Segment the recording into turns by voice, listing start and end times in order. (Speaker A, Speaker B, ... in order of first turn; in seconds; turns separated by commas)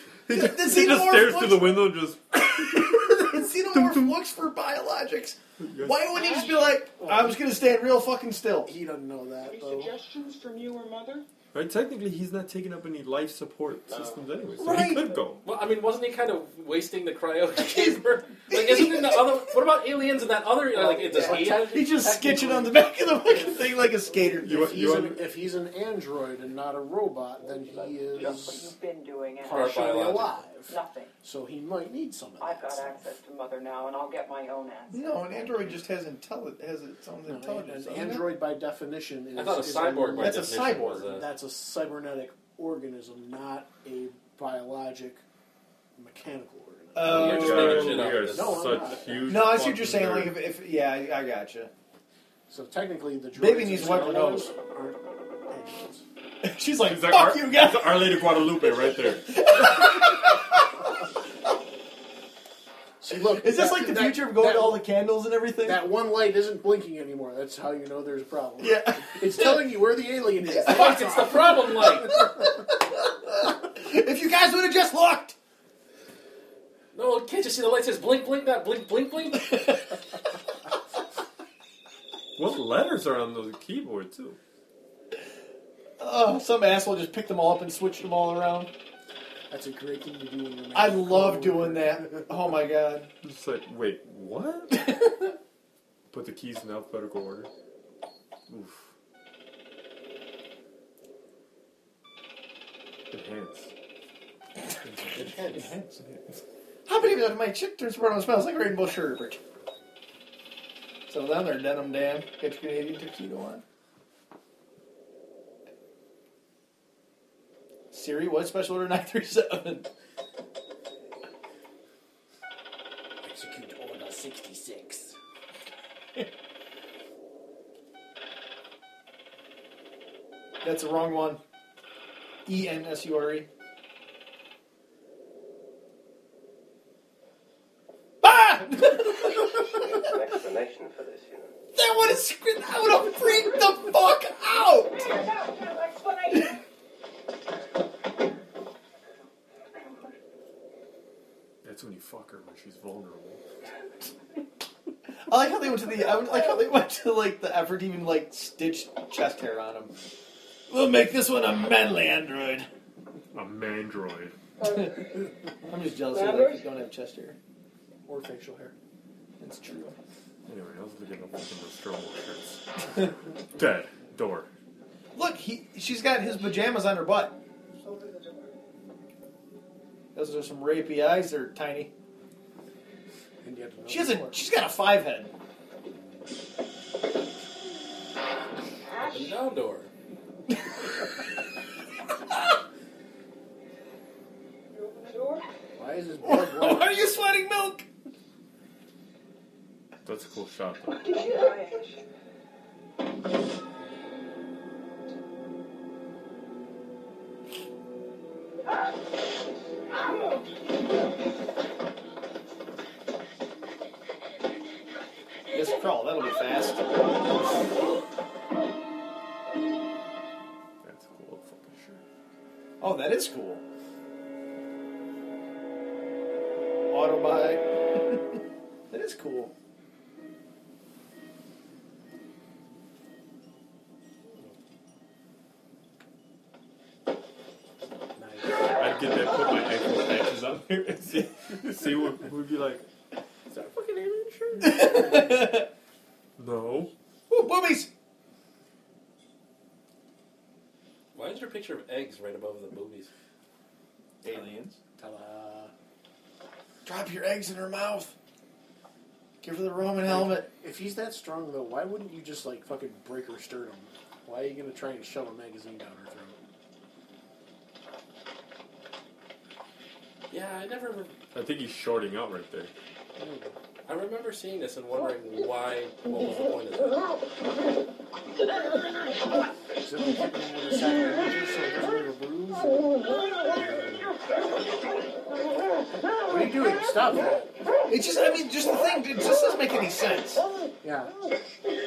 Speaker A: 0.3-4.1, Speaker B: 0.3-8.7, Speaker A: 5.6-6.4, Speaker C: 6.1-6.8, Speaker D: 7.0-7.3, Speaker D: 8.7-9.9, Speaker C: 9.4-11.3, Speaker A: 11.5-15.4, Speaker B: 14.6-15.2, Speaker E: 15.4-22.0, Speaker B: 17.6-19.5, Speaker D: 20.8-28.7, Speaker B: 21.3-24.8, Speaker A: 24.4-25.3, Speaker C: 28.1-29.7, Speaker D: 29.4-33.0, Speaker E: 29.5-30.4, Speaker C: 30.7-31.1, Speaker C: 32.4-35.6, Speaker B: 34.9-38.3, Speaker D: 37.2-40.5, Speaker E: 39.4-41.3, Speaker B: 40.2-41.1, Speaker D: 41.1-45.2, Speaker D: 46.0-49.3, Speaker B: 47.0-48.2, Speaker E: 47.1-49.0, Speaker A: 47.1-50.4, Speaker B: 49.3-51.7, Speaker D: 52.5-56.0, Speaker B: 53.4-54.5, Speaker B: 56.4-58.2, Speaker A: 56.8-59.6, Speaker B: 59.1-60.7, Speaker D: 63.0-64.9, Speaker B: 63.1-65.9, Speaker D: 65.6-72.3, Speaker B: 68.6-69.7, Speaker B: 70.5-71.1, Speaker E: 70.7-72.2, Speaker B: 72.3-75.4, Speaker E: 76.9-79.7, Speaker A: 82.4-84.4, Speaker B: 86.0-88.7, Speaker D: 89.5-92.3, Speaker B: 90.7-93.1, Speaker A: 93.2-95.0, Speaker A: 96.1-97.5, Speaker A: 98.5-98.9, Speaker A: 103.1-103.7, Speaker B: 104.9-106.2, Speaker E: 105.1-105.7, Speaker B: 106.9-109.4, Speaker B: 111.1-113.6, Speaker B: 117.9-119.9, Speaker D: 123.2-125.2, Speaker B: 130.6-131.4, Speaker B: 132.5-133.5, Speaker B: 138.2-140.1, Speaker F: 139.5-141.5, Speaker B: 141.7-145.1, Speaker C: 145.2-146.4, Speaker A: 151.6-153.4, Speaker B: 155.3-159.9, Speaker B: 160.7-162.7, Speaker A: 163.3-164.3, Speaker C: 164.6-165.3, Speaker B: 164.6-164.9, Speaker B: 165.7-167.4, Speaker C: 166.0-166.7, Speaker D: 168.1-168.7, Speaker B: 168.1-168.7, Speaker B: 169.4-170.0, Speaker A: 170.5-174.5, Speaker B: 175.2-177.4, Speaker C: 177.8-178.5, Speaker B: 180.2-181.9, Speaker D: 183.4-184.4, Speaker B: 183.9-185.3, Speaker E: 189.0-189.9, Speaker C: 194.7-195.5, Speaker D: 195.8-197.1, Speaker B: 196.2-197.9, Speaker A: 200.1-201.2, Speaker C: 201.0-202.1, Speaker B: 215.5-217.5, Speaker A: 220.8-222.0, Speaker B: 222.8-223.6, Speaker B: 226.9-228.4, Speaker B: 228.9-229.5, Speaker D: 238.2-238.6, Speaker A: 238.7-242.8, Speaker A: 244.6-245.4, Speaker B: 244.6-245.7, Speaker A: 246.4-246.9, Speaker B: 247.3-247.9, Speaker E: 251.1-253.1, Speaker B: 254.2-254.8, Speaker D: 255.0-255.7, Speaker B: 256.9-258.1, Speaker B: 259.4-260.5, Speaker D: 260.0-266.4, Speaker E: 270.3-271.1, Speaker A: 271.3-272.7, Speaker D: 273.2-273.5, Speaker E: 273.9-277.1, Speaker D: 279.8-284.2, Speaker D: 286.3-287.5, Speaker B: 287.9-290.5, Speaker D: 290.8-291.1